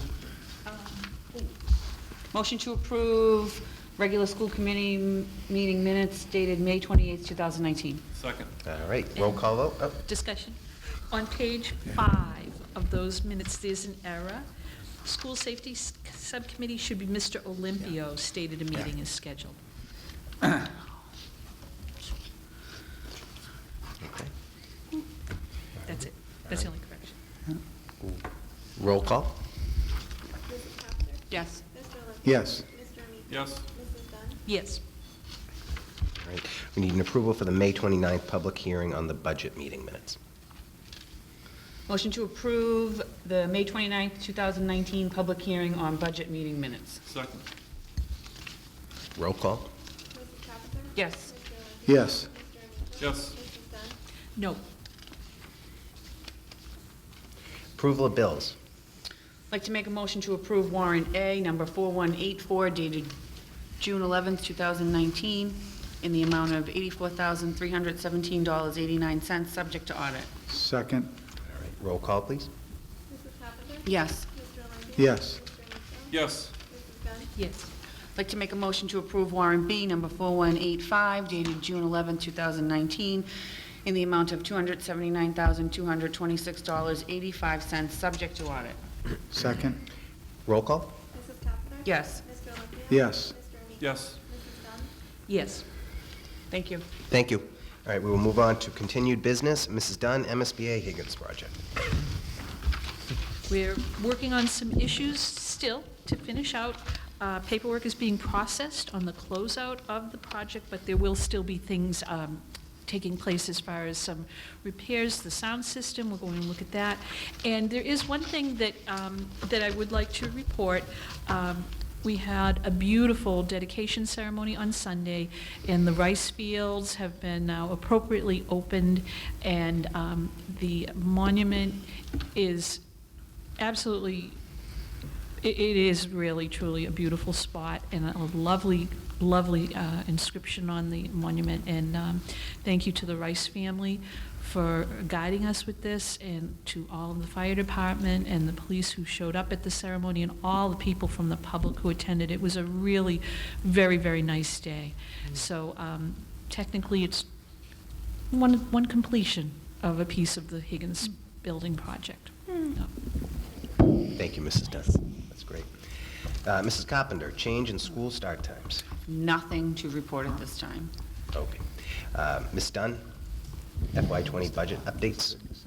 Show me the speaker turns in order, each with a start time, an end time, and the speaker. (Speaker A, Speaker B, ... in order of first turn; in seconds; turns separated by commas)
Speaker A: 2.3-8.0, Speaker B: 8.2-8.5, Speaker C: 8.6-10.0, Speaker D: 9.1-10.6, Speaker D: 11.1-14.4, Speaker D: 15.0-19.6, Speaker C: 24.0-24.3, Speaker D: 25.8-27.1, Speaker C: 28.8-29.4, Speaker A: 31.3-31.6, Speaker E: 32.2-32.6, Speaker B: 33.3-33.6, Speaker D: 34.4-34.8, Speaker C: 36.2-40.2, Speaker A: 41.9-47.0, Speaker B: 47.1-47.4, Speaker C: 49.1-49.7, Speaker A: 50.9-51.4, Speaker E: 51.9-52.3, Speaker B: 53.0-53.4, Speaker D: 54.4-54.6, Speaker C: 57.8-58.5, Speaker A: 59.5-63.1, Speaker A: 63.8-70.3, Speaker E: 70.5-71.1, Speaker C: 71.5-72.5, Speaker A: 73.8-74.3, Speaker E: 75.0-75.4, Speaker B: 76.1-76.5, Speaker D: 77.3-77.7, Speaker A: 78.2-83.3, Speaker A: 83.8-88.8, Speaker E: 89.3-89.8, Speaker C: 90.5-90.9, Speaker A: 91.8-92.3, Speaker E: 92.9-93.3, Speaker B: 93.8-94.2, Speaker D: 95.3-95.6, Speaker A: 96.5-96.8, Speaker C: 97.1-101.6, Speaker D: 103.5-132.8, Speaker D: 133.6-134.4, Speaker D: 135.4-157.2, Speaker D: 158.3-162.9, Speaker C: 164.1-165.7, Speaker C: 166.4-168.8, Speaker A: 169.1-170.9, Speaker C: 171.3-173.0, Speaker C: 173.9-175.4